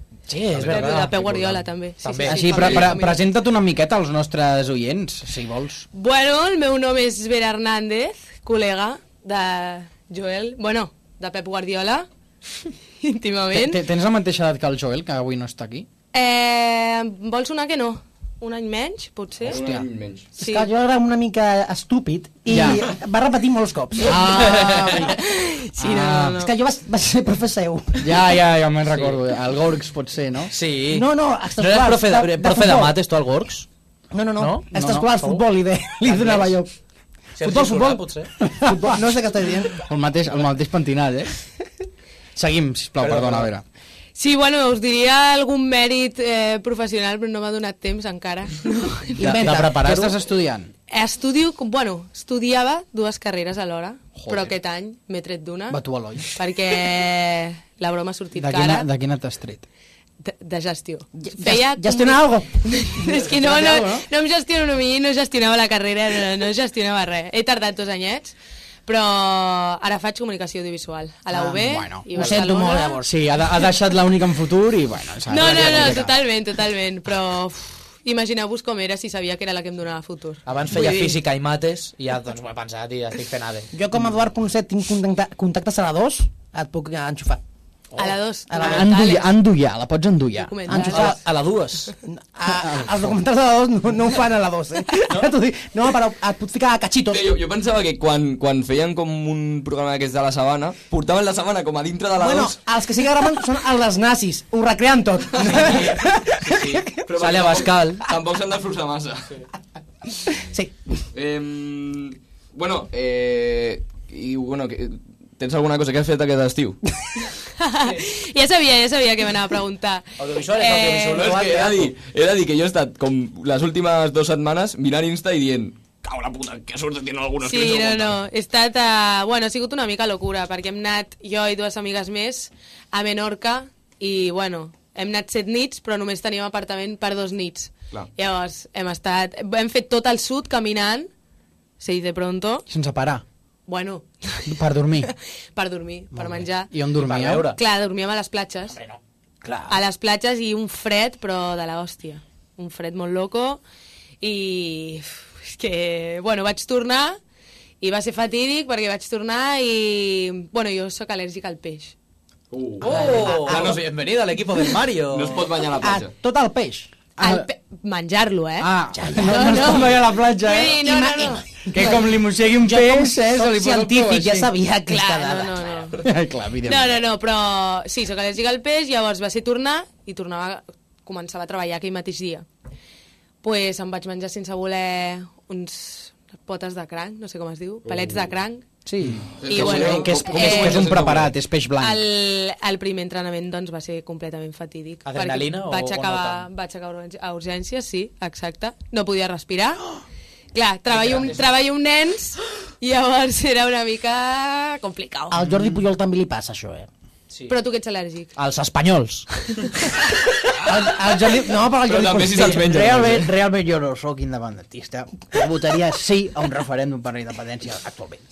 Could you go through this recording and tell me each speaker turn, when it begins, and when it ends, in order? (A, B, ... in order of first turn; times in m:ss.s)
0:00.3-0:01.1 A
0:00.6-0:01.5 B
0:00.6-0:02.7 C
0:00.7-0:03.2 D
0:02.2-0:05.8 A
0:02.5-0:02.9 B
0:05.9-0:12.1 D
0:13.0-0:13.8 D
0:13.5-0:15.9 A
0:16.1-0:19.6 D
0:19.4-0:20.3 B
0:19.5-0:19.8 A
0:20.4-0:20.7 D
0:20.4-0:24.6 E
0:22.5-0:22.8 A
0:24.0-0:25.2 A
0:24.3-0:25.1 C
0:25.0-0:26.5 D
0:25.8-0:26.4 A
0:26.3-0:28.2 E
0:28.0-0:30.5 A
0:28.9-0:29.2 C
0:30.5-0:31.1 C
0:30.9-0:33.0 E
0:31.6-0:33.7 C
0:34.1-0:36.7 E
0:34.4-0:35.4 C
0:34.7-0:35.0 A
0:36.0-0:36.5 C
0:37.4-0:38.3 C
0:37.4-0:39.8 E
0:39.8-0:41.3 A
0:42.3-0:43.6 A
0:43.0-0:43.5 C
0:44.1-0:49.3 D
0:49.2-0:50.1 E
0:49.2-0:50.7 A
0:50.9-0:55.8 D
0:54.2-0:54.5 A
0:55.7-0:56.3 A
0:56.4-0:58.9 D
0:58.4-0:59.7 A
1:00.2-1:13.0 D
1:01.1-1:02.6 E
1:03.1-1:04.0 A
1:11.3-1:12.4 A
1:12.1-1:13.1 E
1:13.0-1:16.1 A
1:15.3-1:21.2 D
1:15.5-1:15.8 C
1:20.4-1:23.7 C
1:23.7-1:27.4 E
1:28.0-1:29.4 D
1:28.5-1:29.0 E
1:28.6-1:30.6 A
1:30.3-1:31.2 D
1:30.7-1:31.2 E
1:30.7-1:31.9 C
1:32.0-1:37.4 E
1:32.5-1:33.1 A
1:37.1-1:42.6 B
1:42.2-1:46.7 E
1:45.3-1:46.0 B
1:45.6-1:48.0 C
1:47.0-1:49.4 B
1:50.4-1:50.7 E
1:51.1-1:56.8 B
1:57.6-2:01.3 D
2:00.2-2:01.9 C
2:01.1-2:08.2 B
2:07.4-2:21.1 D
2:21.8-2:22.6 D
2:22.7-2:23.2 A
2:23.7-2:26.7 D
2:24.5-2:25.1 A
2:26.1-2:27.5 A
2:27.0-2:27.6 C
2:27.4-2:28.8 D
2:28.7-2:29.0 C
2:29.4-2:29.8 A
2:29.7-2:33.6 D
2:34.2-2:37.2 D
2:37.8-2:41.9 D
2:42.5-2:43.8 B
2:42.8-2:45.4 C
2:42.8-2:43.4 D
2:42.9-2:43.8 E
2:45.1-2:46.1 B
2:45.8-2:46.9 E
2:47.2-2:51.6 D
2:47.2-2:47.5 A
2:48.6-2:50.8 A
2:48.9-2:50.0 E
2:50.5-2:55.9 E
2:51.7-2:54.5 A
2:54.9-2:56.0 D
2:56.0-2:57.0 A
2:56.6-3:02.4 D
3:03.4-3:08.6 D
3:07.8-3:08.3 B
3:08.8-3:12.0 A
3:09.4-3:11.3 B
3:09.5-3:10.9 D
3:11.8-3:19.8 D
3:15.0-3:16.5 C
3:20.5-3:25.4 D
3:20.9-3:21.5 C
3:25.3-3:26.9 E
3:27.3-3:27.5 C
3:27.5-3:28.3 D
3:28.4-3:29.3 C
3:30.6-3:32.9 E
3:31.8-3:33.3 B
3:32.6-3:34.1 F
3:34.0-3:38.2 A
3:35.3-3:35.9 F